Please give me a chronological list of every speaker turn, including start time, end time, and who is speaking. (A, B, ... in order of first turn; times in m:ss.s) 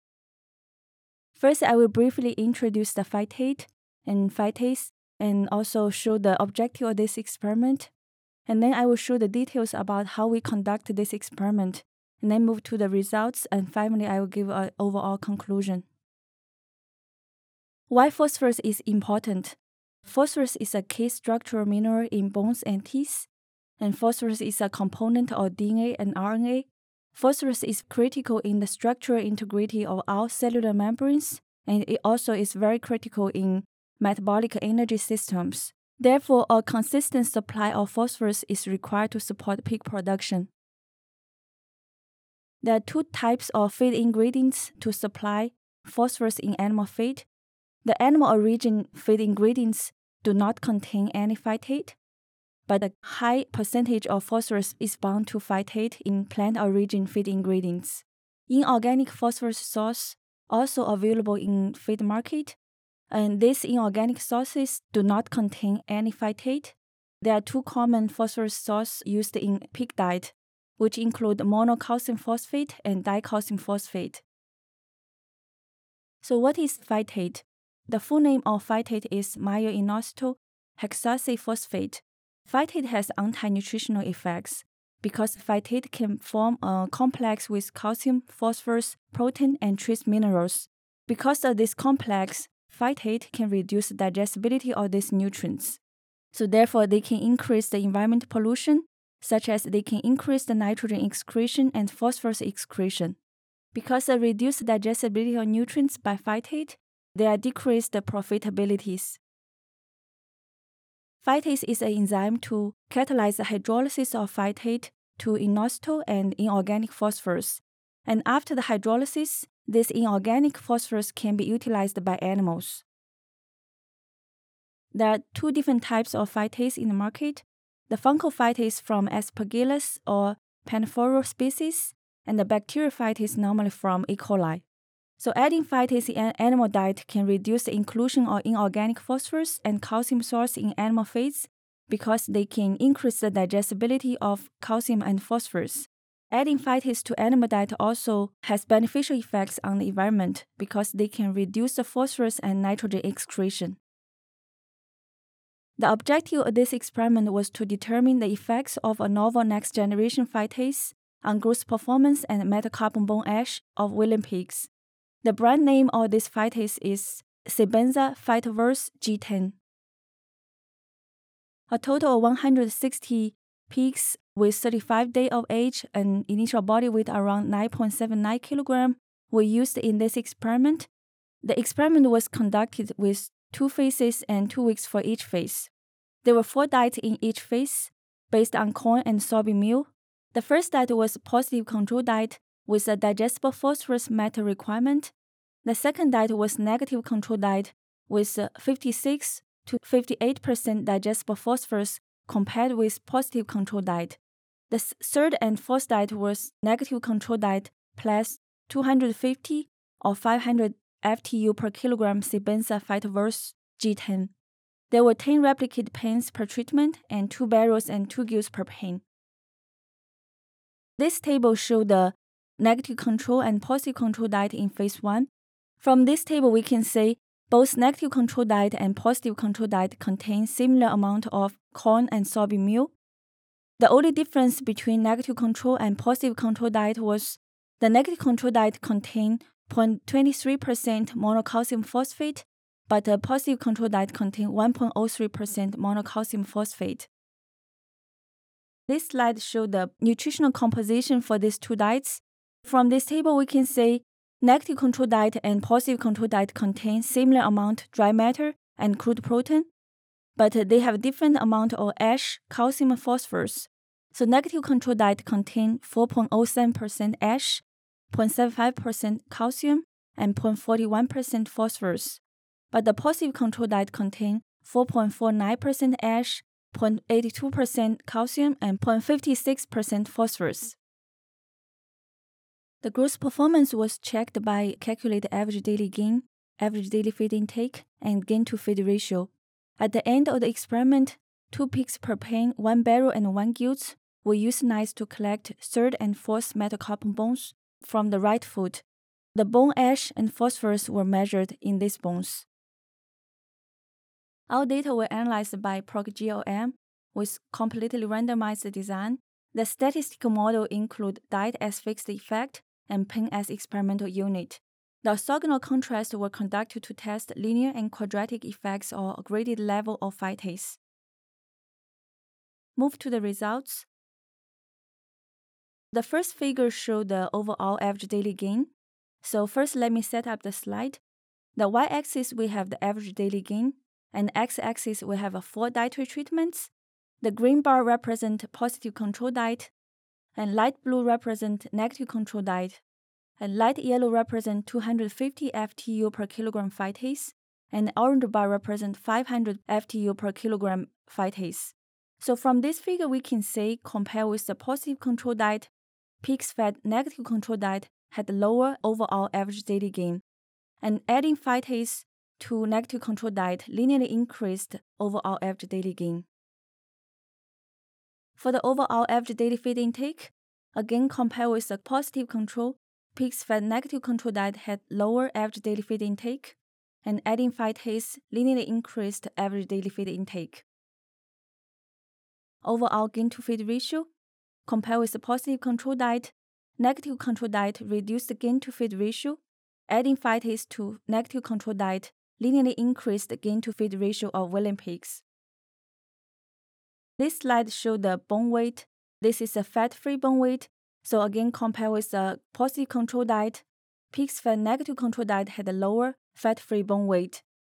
0:01.4-0:07.9 A
0:08.5-0:15.8 A
0:17.9-0:23.3 A
0:23.8-0:40.5 A
0:42.6-0:47.3 A
0:47.8-0:52.0 A
0:52.7-1:02.6 A
1:03.1-1:14.2 A
1:16.2-1:35.8 A
1:36.3-1:43.2 A
1:43.7-1:49.2 A
1:51.2-2:02.8 A
2:04.9-2:14.6 A
2:15.2-2:33.8 A
2:35.8-2:44.7 A
2:45.2-2:49.6 A
2:51.7-3:00.9 A
3:01.4-3:05.7 A
3:06.2-3:15.1 A
3:15.6-3:24.2 A
3:24.7-3:34.3 A
3:34.9-3:39.0 A
3:41.0-3:45.3 A
3:45.8-3:52.9 A
3:53.8-4:07.1 A
4:08.9-4:19.7 A
4:20.4-4:32.2 A
4:32.7-4:40.8 A
4:42.8-4:58.8 A
4:59.4-5:02.5 A
5:04.5-5:20.8 A
5:22.8-5:23.9 A
5:25.9-5:28.7 A
5:29.2-5:31.0 A
5:31.6-5:36.7 A
5:37.2-5:39.7 A
5:40.4-5:42.8 A
5:43.4-5:55.7 A
5:56.2-6:00.2 A
6:00.8-6:06.3 A
6:08.4-6:20.6 A
6:22.6-6:24.1 A
6:24.7-6:35.2 A
6:37.2-6:47.4 A